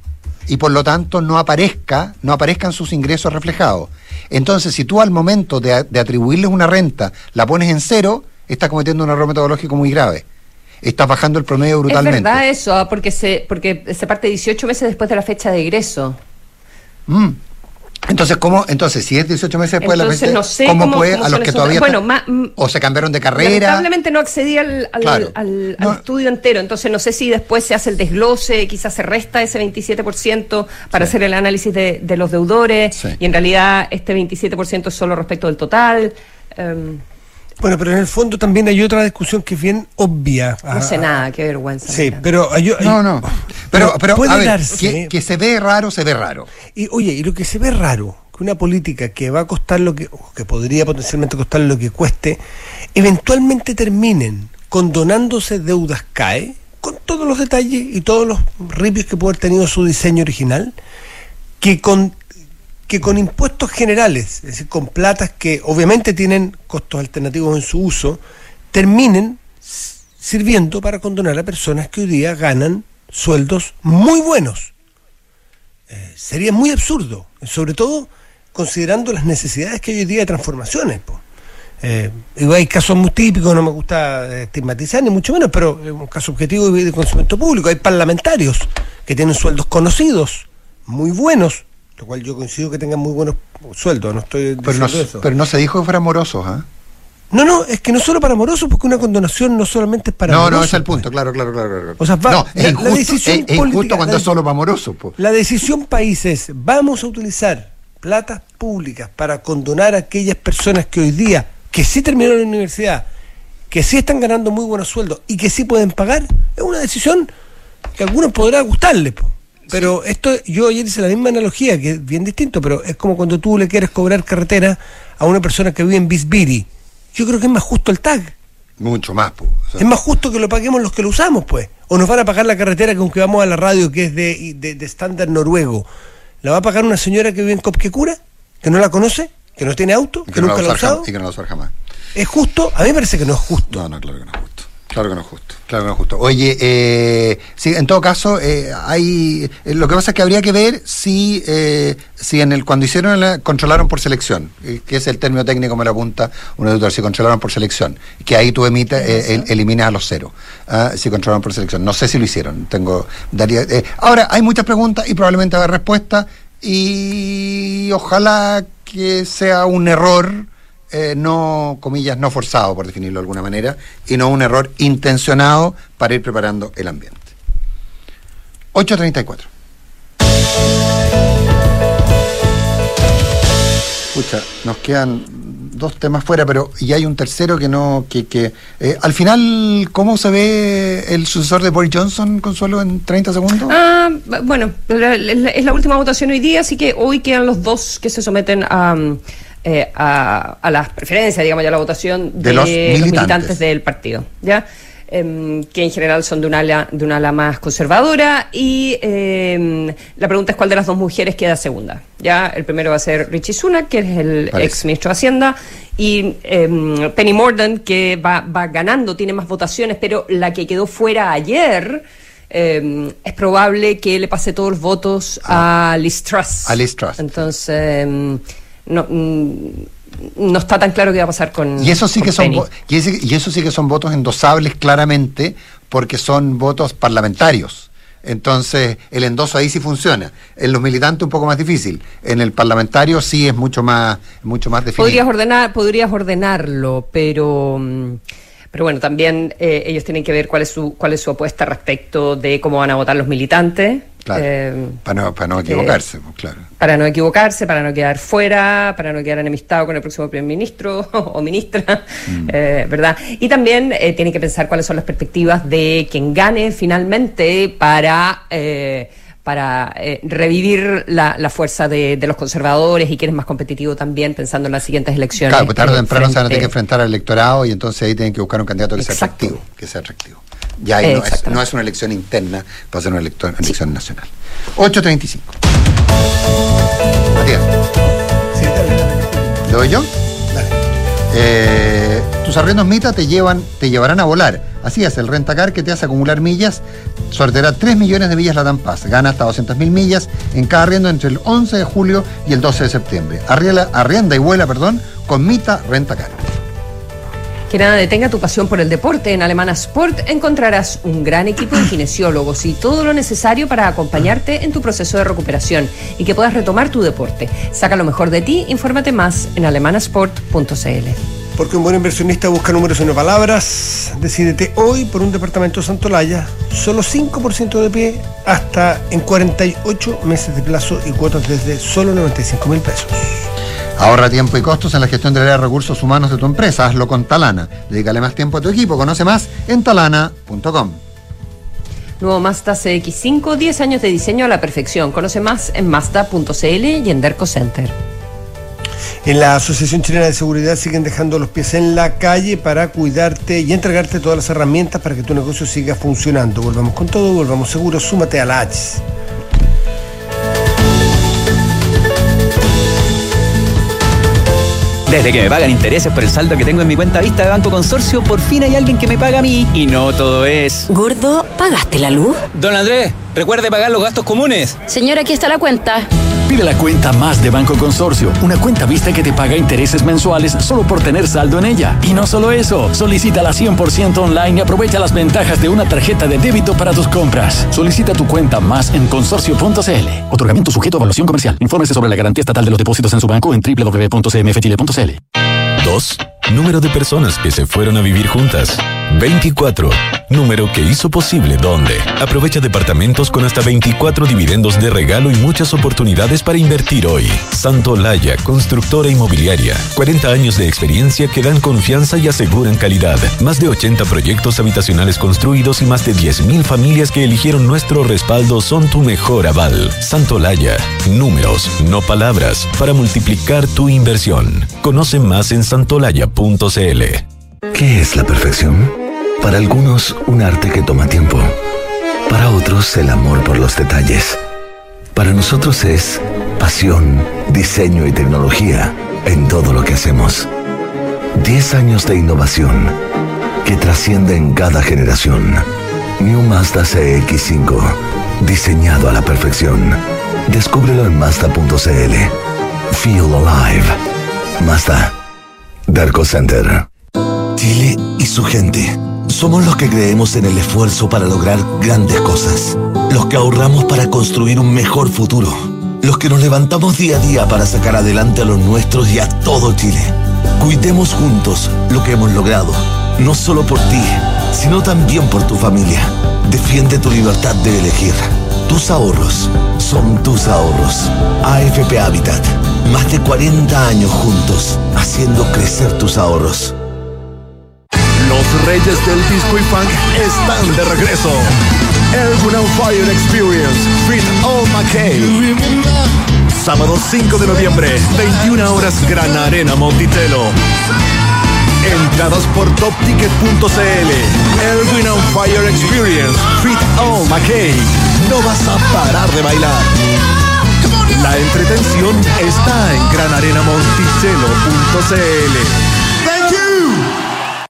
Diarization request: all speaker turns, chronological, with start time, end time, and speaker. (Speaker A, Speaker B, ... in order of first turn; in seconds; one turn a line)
Speaker A: 0.5-10.2
Speaker A: 10.8-12.4
Speaker B: 11.9-16.2
Speaker A: 17.1-17.4
Speaker A: 18.1-22.0
Speaker B: 19.8-22.5
Speaker A: 22.6-23.9
Speaker B: 23.4-37.0
Speaker A: 25.0-26.0
Speaker C: 37.6-41.2
Speaker B: 40.7-42.3
Speaker C: 41.9-45.1
Speaker A: 42.8-46.5
Speaker C: 46.7-52.4
Speaker C: 52.9-60.8
Speaker C: 61.6-62.2
Speaker C: 62.9-68.2
Speaker C: 68.7-74.7
Speaker C: 75.9-81.2
Speaker C: 81.8-95.3
Speaker A: 94.6-96.7
Speaker C: 97.3-101.0
Speaker A: 100.3-105.2
Speaker C: 102.0-104.3
Speaker C: 105.2-113.1
Speaker C: 113.7-117.3
Speaker C: 118.0-128.3
Speaker A: 128.8-129.9
Speaker C: 129.8-135.9
Speaker C: 136.4-141.1
Speaker A: 140.3-141.7
Speaker C: 142.1-143.8
Speaker A: 143.7-177.3
Speaker A: 178.7-179.5
Speaker A: 184.1-193.8
Speaker B: 193.7-232.7
Speaker A: 202.4-203.6
Speaker A: 214.5-214.8
Speaker A: 226.6-227.5
Speaker A: 231.8-245.2
Speaker B: 245.0-248.2
Speaker B: 248.7-255.0
Speaker A: 255.0-256.6
Speaker B: 255.6-256.0
Speaker B: 256.8-276.7
Speaker A: 275.4-285.6
Speaker B: 279.0-279.6
Speaker B: 281.0-281.6
Speaker A: 287.4-287.7
Speaker C: 288.5-289.6
Speaker A: 289.7-290.1
Speaker A: 291.3-306.5
Speaker B: 307.7-321.2
Speaker C: 321.6-333.5
Speaker A: 334.0-341.0
Speaker B: 342.2-347.9
Speaker C: 349.2-359.0
Speaker D: 365.1-370.9
Speaker E: 370.9-372.4
Speaker D: 372.5-374.8
Speaker E: 374.9-376.1
Speaker F: 376.5-395.2
Speaker G: 395.8-427.2
Speaker H: 427.7-431.6
Speaker H: 432.3-434.4
Speaker H: 435.1-440.5
Speaker H: 441.4-443.0
Speaker H: 443.6-445.7
Speaker H: 446.2-452.3
Speaker H: 452.9-454.0
Speaker H: 454.6-455.1
Speaker H: 455.9-456.9
Speaker H: 457.6-486.8
Speaker I: 488.2-491.5
Speaker I: 492.1-495.7
Speaker I: 496.5-500.6
Speaker I: 501.8-510.0
Speaker I: 511.1-516.7